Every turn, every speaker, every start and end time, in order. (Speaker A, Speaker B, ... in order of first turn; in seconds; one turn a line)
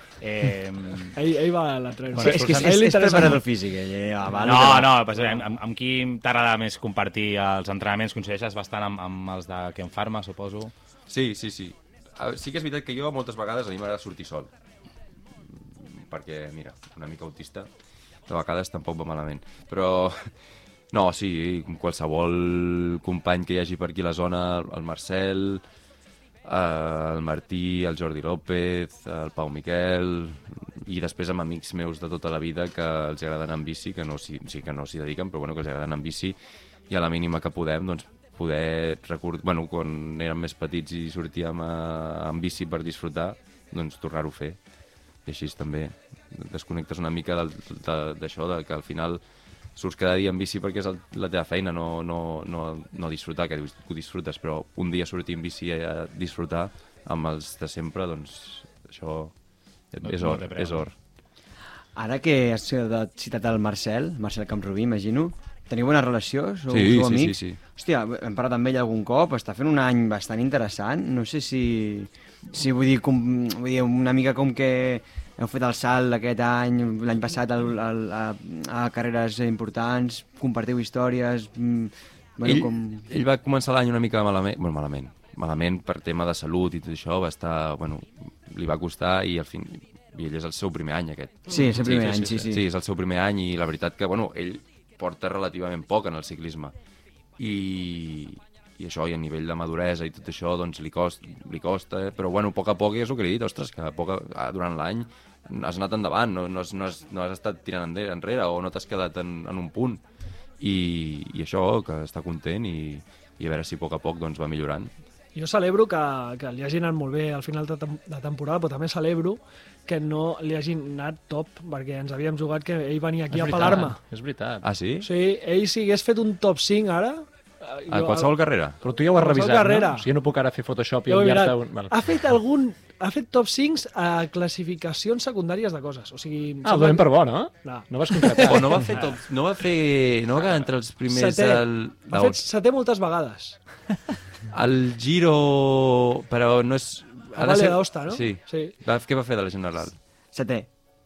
Speaker A: 0.2-1.2
Speaker B: 1.1-3.4
Speaker C: 2.1-5.0
Speaker A: 2.1-2.8
Speaker A: 4.4-10.7
Speaker D: 11.1-14.5
Speaker D: 15.4-17.7
Speaker D: 18.3-20.4
Speaker D: 20.9-25.6
Speaker D: 26.4-36.4
Speaker D: 36.9-44.6
Speaker D: 45.2-49.2
Speaker D: 49.8-60.9
Speaker A: 60.0-60.9
Speaker C: 62.0-83.1
Speaker D: 66.7-67.6
Speaker D: 82.5-96.7
Speaker C: 91.5-92.6
Speaker D: 97.4-110.0
Speaker D: 110.6-114.9
Speaker B: 115.3-124.0
Speaker E: 123.3-124.7
Speaker D: 124.6-125.1
Speaker B: 125.0-128.3
Speaker D: 127.9-128.8
Speaker E: 128.8-131.9
Speaker B: 129.1-130.1
Speaker B: 131.1-139.0
Speaker E: 136.6-138.9
Speaker D: 138.4-142.4
Speaker B: 141.1-143.8
Speaker D: 144.5-150.0
Speaker B: 147.3-148.7
Speaker C: 150.3-150.7